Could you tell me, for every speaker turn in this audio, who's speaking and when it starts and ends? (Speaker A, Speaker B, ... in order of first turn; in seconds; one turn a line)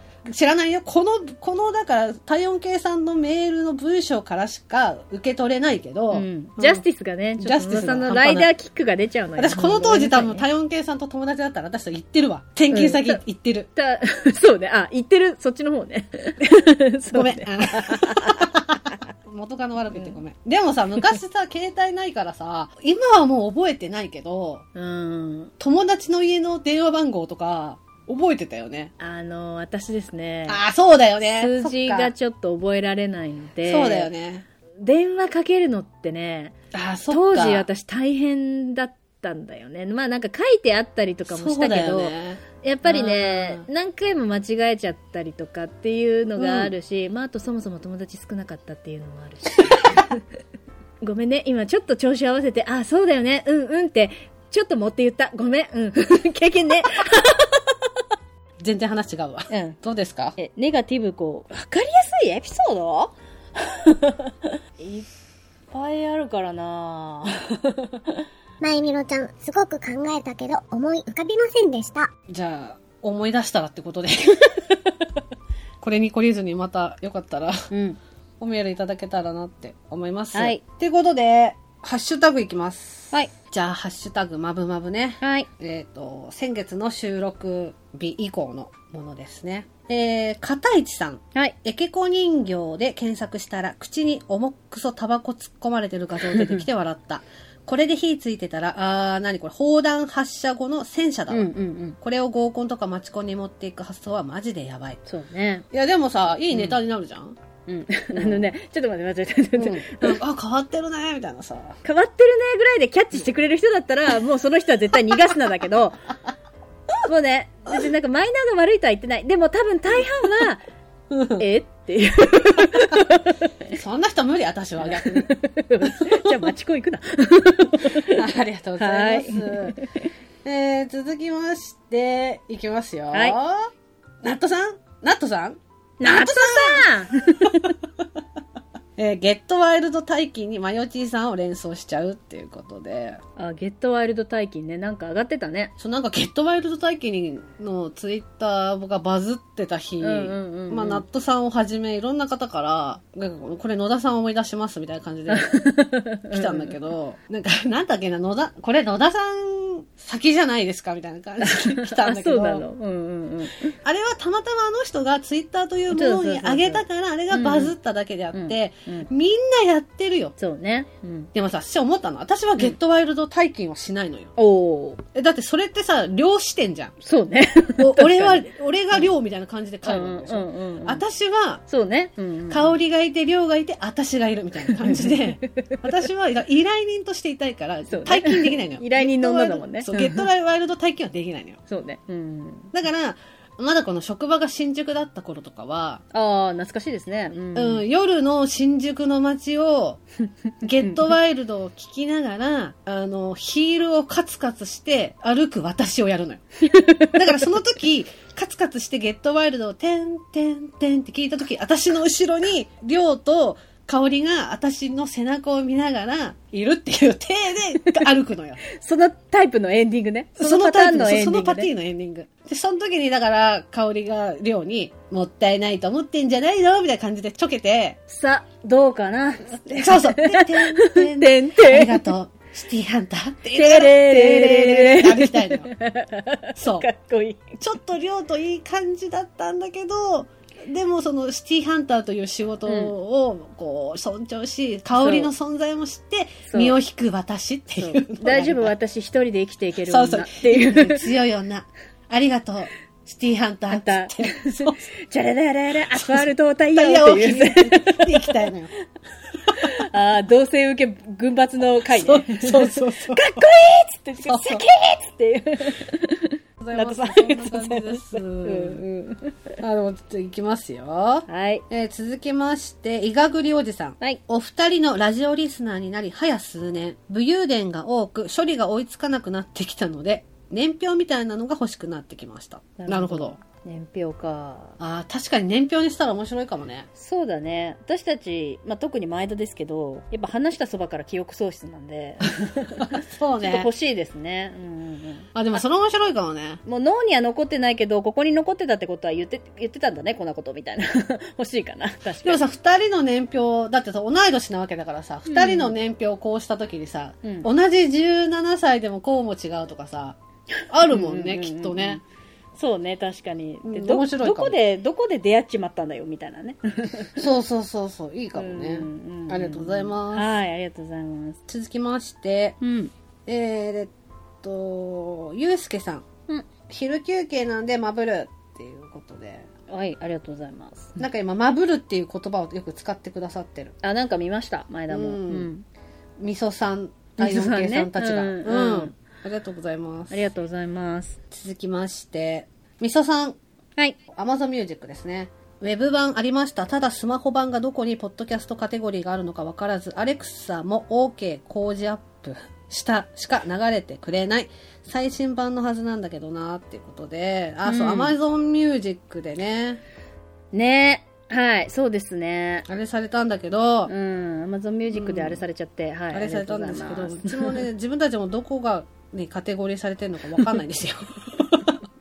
Speaker A: 0.2-6.8
Speaker B: 6.1-10.4
Speaker A: 7.4-8.5
Speaker A: 9.4-13.7
Speaker B: 12.7-13.2
Speaker B: 13.8-18.5
Speaker A: 17.1-24.6
Speaker B: 24.7-25.5
Speaker A: 25.6-28.9
Speaker B: 29.0-30.6
Speaker A: 30.5-32.1
Speaker B: 31.2-34.1
Speaker A: 33.6-34.5
Speaker B: 34.8-36.5
Speaker A: 36.7-37.7
Speaker B: 37.1-50.2
Speaker A: 41.3-43.7
Speaker A: 46.4-46.7
Speaker B: 51.0-57.7
Speaker A: 58.6-60.4
Speaker B: 59.5-59.8
Speaker B: 60.4-65.1
Speaker B: 65.7-68.2
Speaker C: 68.6-72.1
Speaker A: 72.3-74.8
Speaker A: 75.8-77.7
Speaker B: 77.7-78.0
Speaker A: 78.4-105.0
Speaker B: 80.3-80.6
Speaker B: 85.2-85.5
Speaker B: 96.3-96.6
Speaker B: 101.3-102.0
Speaker B: 105.0-105.6
Speaker A: 105.7-107.4
Speaker B: 107.7-110.2
Speaker A: 108.1-108.5
Speaker A: 109.6-111.8
Speaker B: 111.8-116.1
Speaker B: 117.0-120.6
Speaker A: 121.1-121.4
Speaker B: 121.4-123.5
Speaker A: 123.7-125.3
Speaker B: 124.8-128.2
Speaker A: 125.8-126.5
Speaker A: 128.1-129.8
Speaker B: 128.8-129.9
Speaker A: 130.4-133.7
Speaker B: 133.1-133.4
Speaker A: 134.2-137.7
Speaker B: 136.0-137.7
Speaker A: 139.0-143.2
Speaker B: 143.4-145.7
Speaker A: 145.8-155.7
Speaker B: 150.0-151.0
Speaker B: 155.3-156.7
Speaker A: 156.3-162.6
Speaker B: 161.4-163.8
Speaker A: 163.8-170.3
Speaker B: 165.9-167.7
Speaker B: 168.3-169.1
Speaker B: 170.4-171.3
Speaker A: 171.3-174.3
Speaker B: 174.4-175.0
Speaker A: 175.1-176.9
Speaker B: 177.0-179.1
Speaker A: 177.8-181.6
Speaker B: 179.8-181.0
Speaker B: 181.7-182.7
Speaker A: 182.5-191.6
Speaker B: 184.7-185.9
Speaker B: 187.9-190.2
Speaker B: 191.7-192.7
Speaker A: 192.7-196.0
Speaker B: 196.1-197.8
Speaker A: 197.5-200.0
Speaker A: 200.6-206.4
Speaker B: 206.7-207.2
Speaker A: 207.0-218.6
Speaker B: 218.7-221.7
Speaker A: 220.4-228.0
Speaker B: 228.1-232.1
Speaker A: 229.7-235.7
Speaker B: 233.5-237.6
Speaker A: 236.6-236.9
Speaker A: 237.6-248.7
Speaker B: 242.7-242.9
Speaker B: 245.0-245.3
Speaker B: 246.5-246.8
Speaker B: 247.8-251.1
Speaker A: 249.8-254.8
Speaker B: 253.7-258.4
Speaker A: 255.9-258.7
Speaker B: 259.5-269.6
Speaker A: 261.9-263.4
Speaker A: 264.2-264.6
Speaker A: 266.6-268.8
Speaker A: 269.6-283.4
Speaker B: 271.3-271.6
Speaker B: 282.8-284.8
Speaker A: 284.8-286.9
Speaker B: 286.9-295.3
Speaker A: 292.8-293.7
Speaker A: 295.3-296.6
Speaker B: 296.6-302.4
Speaker A: 302.2-310.2
Speaker B: 305.3-305.7
Speaker B: 307.2-307.5
Speaker A: 310.7-312.0
Speaker B: 310.8-312.0
Speaker B: 312.5-317.2
Speaker A: 313.6-314.6
Speaker A: 317.1-320.3
Speaker B: 318.3-321.4
Speaker A: 321.5-322.6
Speaker B: 322.6-322.9
Speaker A: 323.3-326.1
Speaker A: 326.7-329.5
Speaker B: 329.7-331.0
Speaker A: 331.0-333.7
Speaker B: 333.8-335.6
Speaker A: 334.9-335.5
Speaker A: 336.2-340.3
Speaker B: 337.2-338.9
Speaker B: 340.1-341.2
Speaker A: 341.3-343.4
Speaker A: 344.1-359.8
Speaker B: 357.6-358.1
Speaker B: 360.5-362.7
Speaker A: 362.7-363.9
Speaker B: 363.9-367.6
Speaker A: 364.9-365.4
Speaker A: 366.1-371.8